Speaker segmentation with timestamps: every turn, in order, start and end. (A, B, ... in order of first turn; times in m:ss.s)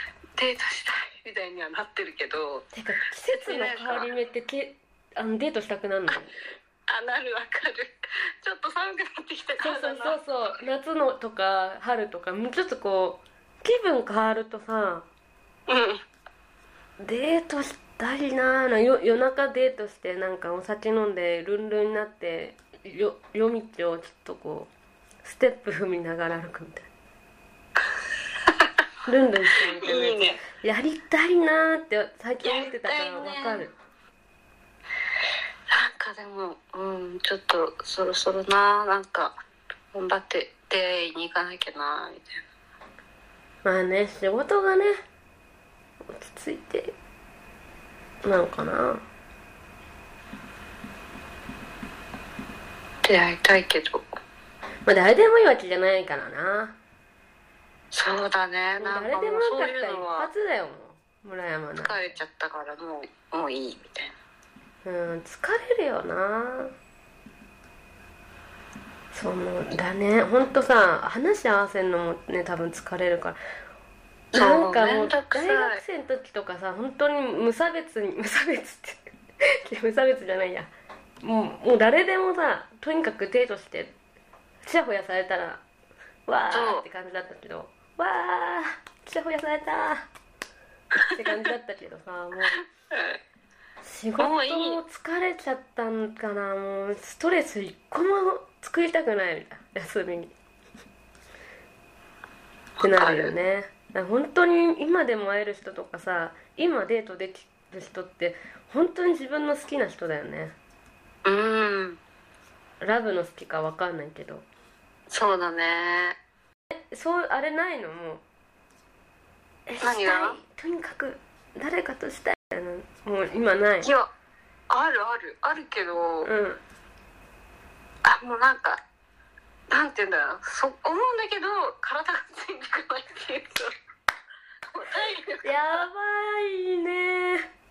0:00.4-0:02.7 A
0:02.7-0:06.3 B
0:03.3-0:04.1 A
0:06.9-0:10.2 A
0:09.6-0:15.1 B
0:15.7-0:16.0 A
0:17.0-0:24.7 B
0:25.2-0:26.9 B
0:29.1-0:33.7 B
0:29.8-0:30.4 A
0:32.4-0:33.7 A
0:35.7-0:39.4 A
0:39.9-0:42.4 A
0:43.6-0:45.0 B
0:46.1-0:47.0 B
0:48.2-0:49.0 B
0:53.0-0:54.0 A
0:54.9-0:56.8 B
0:57.9-1:00.3 A
0:58.8-1:02.2 B
1:01.8-1:04.2 A
1:04.8-1:06.7 B
1:09.1-1:13.4 B
1:14.3-1:20.7 B
1:14.3-1:15.8 A
1:21.2-1:24.0 B
1:24.6-1:25.6 B
1:26.3-1:30.1 B
1:26.5-1:26.8 A
1:31.1-1:32.6 B
1:32.9-1:33.2 A
1:33.8-1:40.3 B
1:34.2-1:34.8 A
1:42.8-1:43.3 A
1:42.8-1:50.6 B
1:51.2-1:52.0 A
1:52.8-1:54.5 B
1:55.1-1:56.2 A
1:56.7-1:58.2 B
1:59.7-2:03.9 B
1:59.8-2:00.4 A
2:03.8-2:04.1 A
2:04.7-2:06.3 A
2:06.2-2:06.6 B
2:08.0-2:08.8 A
2:09.7-2:13.7 A
2:14.7-2:15.8 A
2:15.4-2:17.5 B